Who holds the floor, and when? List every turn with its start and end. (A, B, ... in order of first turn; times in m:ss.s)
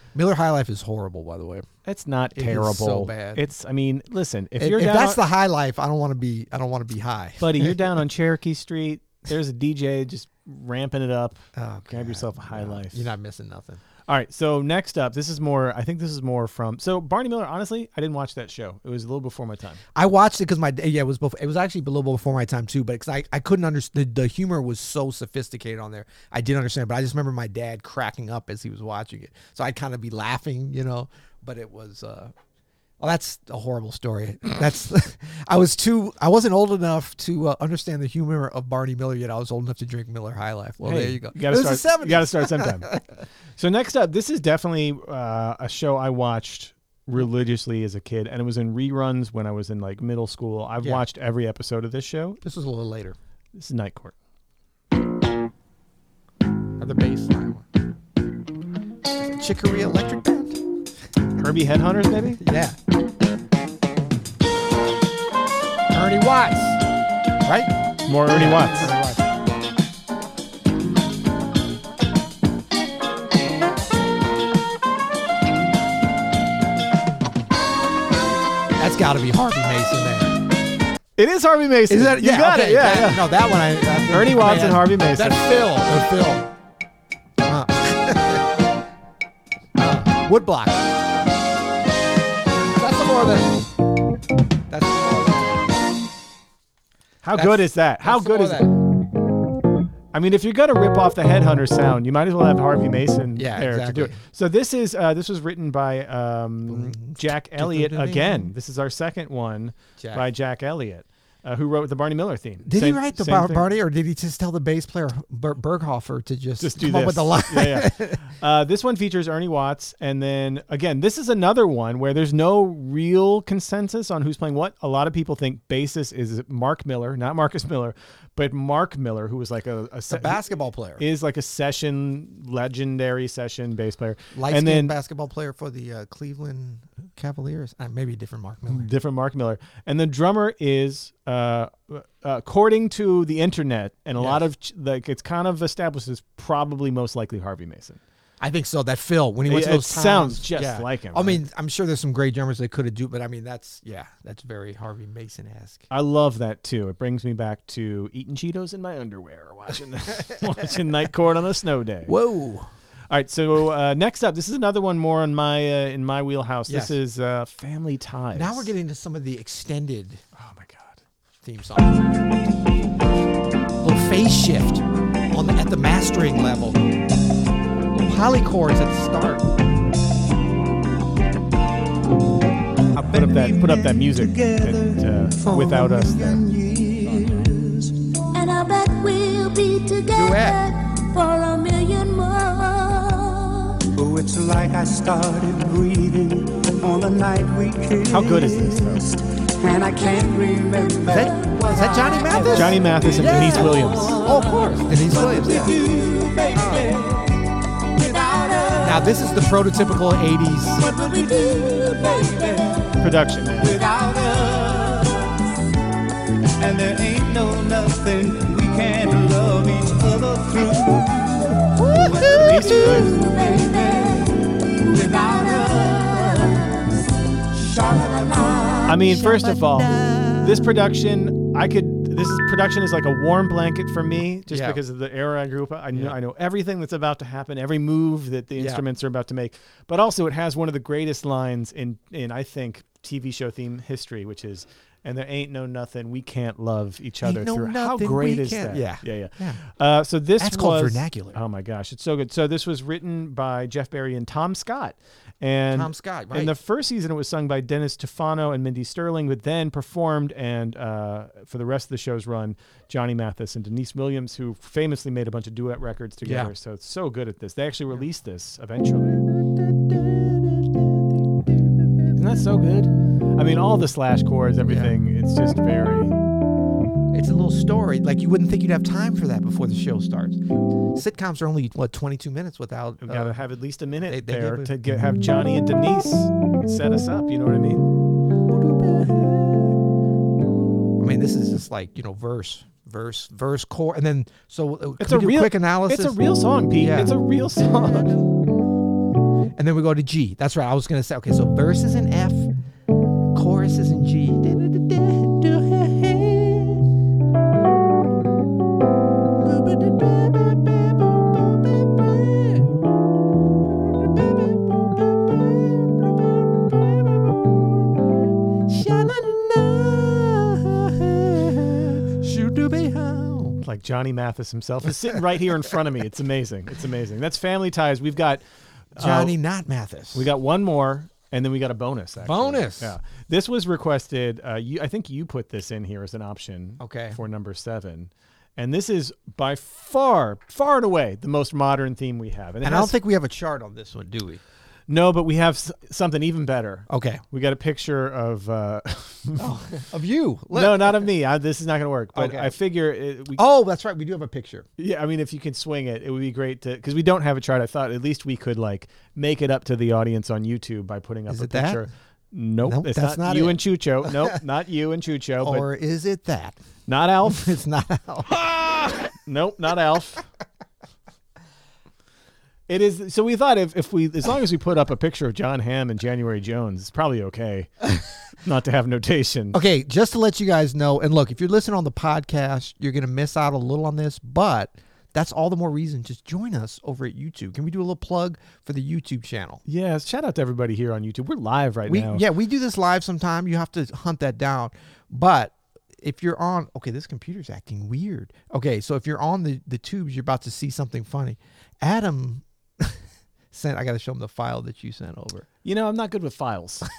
0:00.1-0:01.7 A
0:01.8-0:05.2 B
0:02.3-0:03.4 A
0:04.6-0:07.9 A
0:07.4-0:13.1 B
0:11.5-0:13.8 A
0:14.1-0:19.8 B
0:19.9-0:32.3 A
0:33.0-0:43.0 A
0:40.8-0:42.9 B
0:43.6-0:52.4 B
0:52.4-0:53.2 A
0:53.5-0:54.1 B
0:56.8-0:57.6 A
0:59.1-1:00.6 A
1:01.4-1:02.4 B
1:02.4-1:02.8 A
1:05.9-1:06.8 A
1:07.4-1:07.7 A
1:08.0-1:08.9 B
1:08.2-1:09.3 A
1:18.8-1:20.4 A
1:21.2-1:23.3 B
1:21.9-1:26.5 A
1:24.1-1:25.5 B
1:27.4-1:28.5 A
1:29.8-1:30.9 A
1:32.6-1:33.7 A
1:34.7-1:35.9 A
1:37.2-1:38.7 B
1:37.3-1:38.8 A
1:40.1-1:53.7 B
1:43.4-1:44.2 A
1:46.7-1:48.5 A
1:50.0-1:50.3 A
1:52.6-1:58.2 A
1:56.6-2:10.4 B
2:10.1-2:11.0 A
2:11.0-2:14.9 B
2:14.3-2:18.9 A
2:18.7-2:28.0 B
2:24.2-2:24.4 A
2:28.4-2:35.9 A
2:29.4-2:31.4 B
2:35.9-2:42.1 B
2:42.1-2:42.7 A
2:43.1-2:48.7 B
2:46.7-2:47.0 A
2:48.3-2:50.2 A
2:50.3-2:51.0 B
2:51.4-2:52.1 A
2:53.8-2:56.8 A
2:58.0-2:59.5 A
3:02.9-3:07.9 C
3:03.1-3:06.4 B
3:08.3-3:13.9 D
3:10.1-3:10.6 A
3:14.0-3:27.4 C
3:18.1-3:19.0 B
3:19.8-3:22.5 D
3:21.1-3:25.7 A
3:22.5-3:24.2 B
3:26.6-3:26.9 A
3:28.0-3:29.1 C
3:28.1-3:28.8 D
3:28.8-3:30.9 A
3:30.8-3:32.9 C
3:31.1-3:32.3 D
3:33.0-3:33.8 B
3:33.6-3:35.3 C
3:36.6-3:47.0 C
3:41.9-3:42.7 A
3:42.2-3:44.3 D
3:42.3-3:43.2 B
3:44.9-3:46.4 D
3:47.5-3:49.1 C
3:48.8-4:29.2 B
3:49.2-3:50.7 A
3:54.5-3:54.8 A
3:58.6-3:58.8 A
4:07.2-4:09.6 A
4:10.4-4:11.4 A
4:15.7-4:16.5 A
4:26.2-4:26.5 A
4:29.4-4:32.1 A
4:32.1-4:36.1 B
4:34.6-4:34.9 A
4:37.1-4:40.4 A
4:40.9-4:43.4 A
4:43.0-4:47.9 B
4:44.1-4:44.7 A
4:48.5-4:49.8 A
4:51.0-4:56.2 A
4:55.0-4:58.2 B
4:56.8-4:58.3 A
4:59.6-5:02.5 A
5:03.3-5:06.9 A
5:09.4-5:12.7 A
5:13.8-5:17.6 A
5:18.6-5:23.6 A
5:23.6-5:28.4 B
5:29.0-5:29.3 B
5:29.0-5:30.3 A
5:30.1-5:43.0 B
5:32.2-5:32.9 A
5:36.8-5:37.2 A
5:42.6-5:44.4 A
5:44.9-5:49.6 B
5:46.9-5:47.2 A
5:49.4-5:51.1 A
5:50.5-5:53.4 B
5:52.1-5:52.6 A
5:53.3-5:54.7 A
5:54.8-6:05.7 B
6:01.3-6:01.9 A
6:02.6-6:04.4 A
6:05.4-6:06.6 A
6:06.9-6:07.6 B
6:07.2-6:08.4 A
6:09.2-6:10.2 B
6:12.7-6:19.6 B
6:19.5-6:29.6 A
6:29.6-6:32.2 B
6:31.8-6:43.0 A
6:43.5-6:45.5 A
6:45.6-6:46.9 B